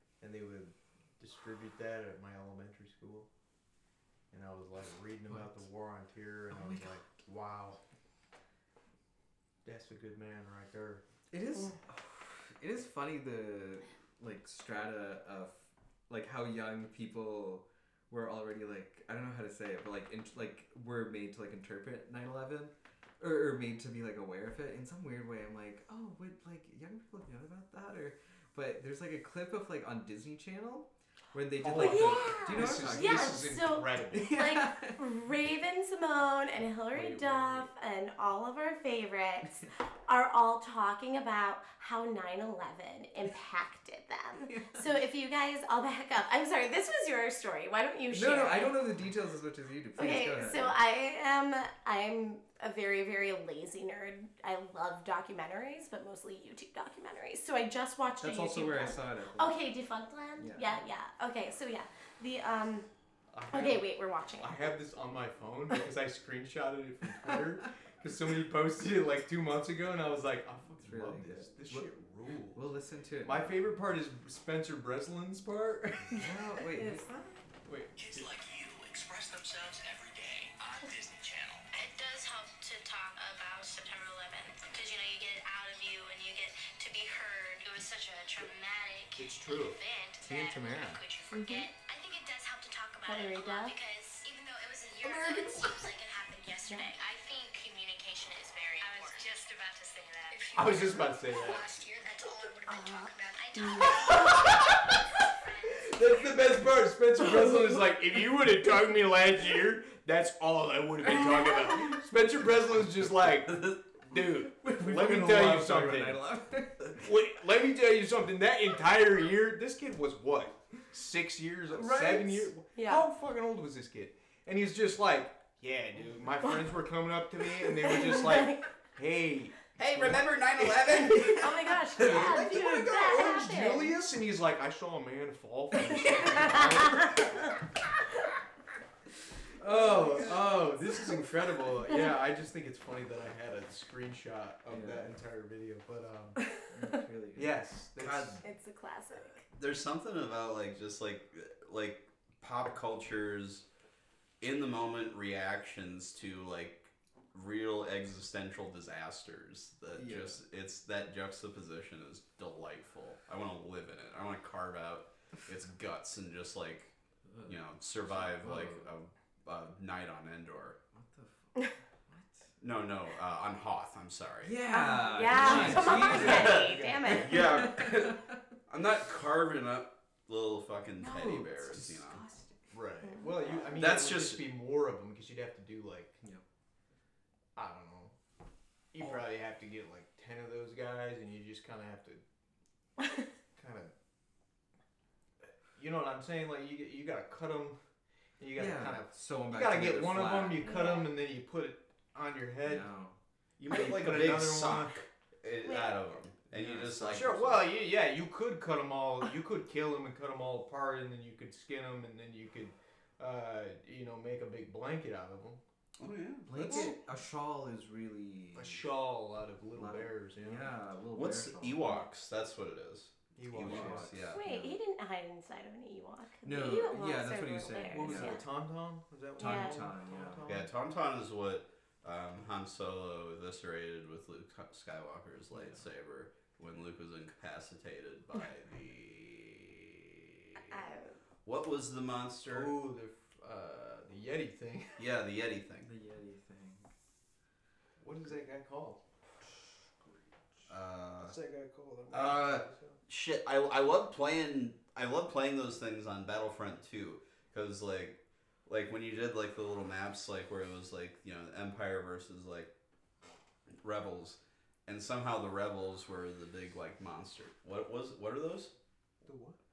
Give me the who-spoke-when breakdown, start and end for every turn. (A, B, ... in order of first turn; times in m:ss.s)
0:00.2-0:03.3 A
0:04.3-0:07.8 A
0:05.3-0:05.6 B
0:06.5-0:07.0 B
0:09.6-0:11.0 A
0:11.3-0:33.5 B
0:31.6-0:34.4 A
0:31.8-0:48.9 C
0:34.1-0:35.0 B
0:36.9-0:37.7 D
0:44.5-0:44.9 B
0:48.1-0:50.8 B
0:50.0-1:02.9 C
0:58.2-0:59.6 B
1:00.4-1:00.8 B
1:03.3-1:12.6 A
1:03.5-1:04.6 C
1:10.8-1:11.9 B
1:12.5-1:13.6 B
1:13.2-1:16.2 A
1:16.1-1:17.0 C
1:16.1-1:17.4 B
1:17.6-1:18.4 A
1:18.0-1:21.7 E
1:21.7-1:46.6 F
1:29.2-1:29.7 D
1:30.2-1:31.0 B
1:31.3-1:31.7 C
1:33.0-1:33.7 C
1:36.7-1:36.9 C
1:38.9-1:39.2 C
1:40.5-1:41.7 A
1:42.7-1:44.4 C
1:44.1-1:44.9 A
1:45.7-1:56.2 A
1:53.2-1:53.8 D
1:54.7-1:57.0 B
1:56.9-2:17.6 A
2:02.6-2:03.0 C
2:07.6-2:08.7 C
2:09.8-2:13.4 D
2:11.4-2:13.9 C
2:16.0-2:17.3 C
2:19.6-2:26.4 A
2:19.6-2:20.7 B
2:24.7-2:25.1 B
2:26.7-2:27.6 B
2:27.4-2:28.4 A
2:28.0-2:28.4 D
2:28.4-2:29.4 C
2:29.4-2:33.6 D
2:34.4-2:46.9 D
2:40.0-2:40.4 B
2:47.3-2:48.9 B
2:47.4-2:50.8 D
2:50.9-2:52.5 B
2:52.6-2:54.6 D
2:54.4-2:58.4 B
2:54.7-2:57.4 C
2:55.3-3:02.2 D
2:55.3-2:57.0 A
3:01.0-3:02.7 B
3:02.7-3:06.2 A
3:03.7-3:04.4 D
3:07.6-3:08.1 A
3:08.9-3:12.2 A
3:13.6-3:13.9 A
3:15.7-3:17.8 A
3:18.4-3:22.9 A
3:18.6-3:20.8 B
3:20.6-3:21.1 C
3:22.6-3:23.2 B
3:23.6-3:27.5 D
3:23.7-3:25.0 A
3:25.6-3:26.0 C
3:26.5-3:27.6 B
3:27.0-3:35.6 A
3:36.0-3:36.9 D
3:36.5-3:38.9 B
3:38.5-3:40.7 A
3:39.7-3:42.0 B
3:41.1-3:44.4 D
3:43.4-3:44.1 A
3:43.5-3:44.8 B
3:44.3-3:48.4 C
3:46.4-3:48.4 B
3:47.9-3:50.7 A
3:49.4-3:49.8 C
3:49.4-3:50.4 B
3:50.4-4:00.7 D
4:00.6-4:01.2 C
4:01.4-4:02.7 D
4:02.5-4:05.1 A
4:05.0-4:05.9 D
4:05.8-4:06.9 B
4:08.0-4:09.0 A
4:10.7-4:11.4 D
4:11.2-4:13.0 A
4:12.1-4:22.7 D
4:23.8-4:28.7 D
4:29.2-4:29.6 A